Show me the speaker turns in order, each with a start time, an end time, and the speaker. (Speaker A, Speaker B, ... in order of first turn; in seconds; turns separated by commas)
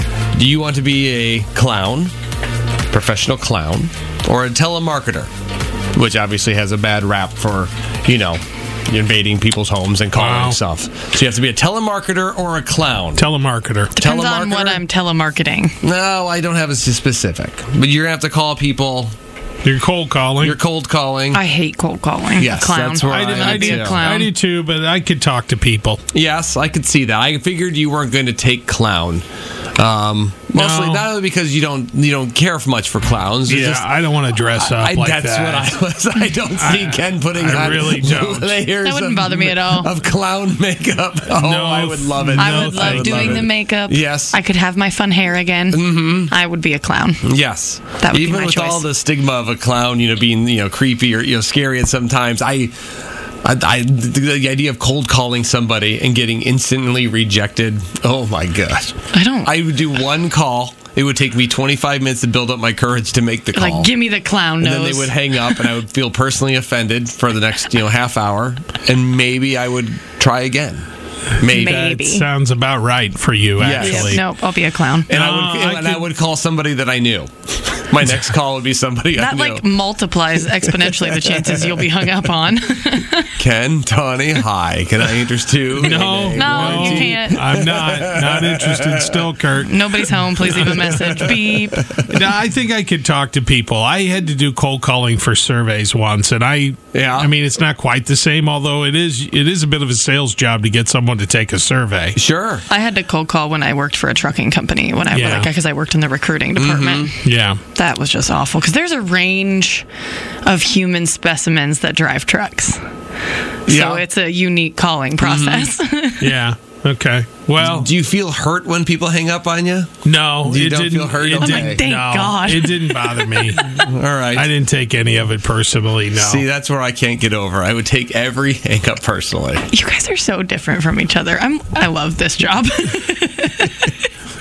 Speaker A: 0.3-2.1, Speaker A: 2.9-5.3, Speaker A: 6.0-13.3, Speaker B: 10.1-10.6, Speaker B: 13.2-13.9, Speaker C: 13.9-15.8, Speaker A: 14.0-14.8, Speaker A: 15.8-19.1, Speaker B: 19.6-20.6, Speaker A: 20.4-21.4, Speaker C: 21.3-24.3, Speaker A: 22.4-24.1, Speaker B: 23.0-26.0, Speaker A: 26.1-29.2, Speaker A: 29.8-33.9, Speaker B: 30.5-31.1, Speaker B: 33.5-35.7, Speaker A: 34.5-44.4, Speaker B: 36.5-38.6, Speaker C: 38.8-39.9, Speaker B: 41.3-43.5, Speaker C: 42.3-47.3, Speaker A: 45.7-46.3, Speaker A: 47.2-52.7, Speaker C: 48.0-48.9, Speaker A: 53.4-58.9, Speaker C: 59.1-59.5, Speaker A: 59.4-63.9, Speaker C: 63.5-65.7, Speaker A: 64.6-70.9, Speaker A: 71.4-71.8, Speaker C: 71.4-72.3, Speaker B: 71.6-74.2, Speaker A: 73.6-74.2, Speaker C: 73.8-75.1, Speaker B: 75.1-76.0, Speaker A: 75.1-79.7, Speaker C: 79.2-83.4, Speaker A: 80.7-81.9, Speaker A: 83.4-89.2, Speaker B: 85.8-90.7, Speaker C: 86.3-87.4, Speaker C: 89.6-92.0, Speaker A: 90.9-91.6, Speaker B: 92.1-102.2, Speaker A: 96.9-97.3, Speaker A: 102.2-102.6, Speaker C: 102.7-107.2, Speaker B: 105.1-105.5, Speaker A: 106.5-107.1, Speaker B: 107.2-107.6, Speaker C: 107.8-109.9, Speaker C: 110.4-112.8, Speaker C: 113.7-116.3, Speaker A: 113.7-114.0, Speaker A: 115.2-115.8, Speaker B: 116.2-117.9, Speaker A: 117.6-119.9, Speaker B: 120.0-123.8, Speaker A: 120.4-121.8, Speaker C: 121.4-123.5, Speaker A: 123.7-124.5, Speaker B: 124.3-126.4, Speaker A: 126.2-129.6, Speaker C: 129.7-134.1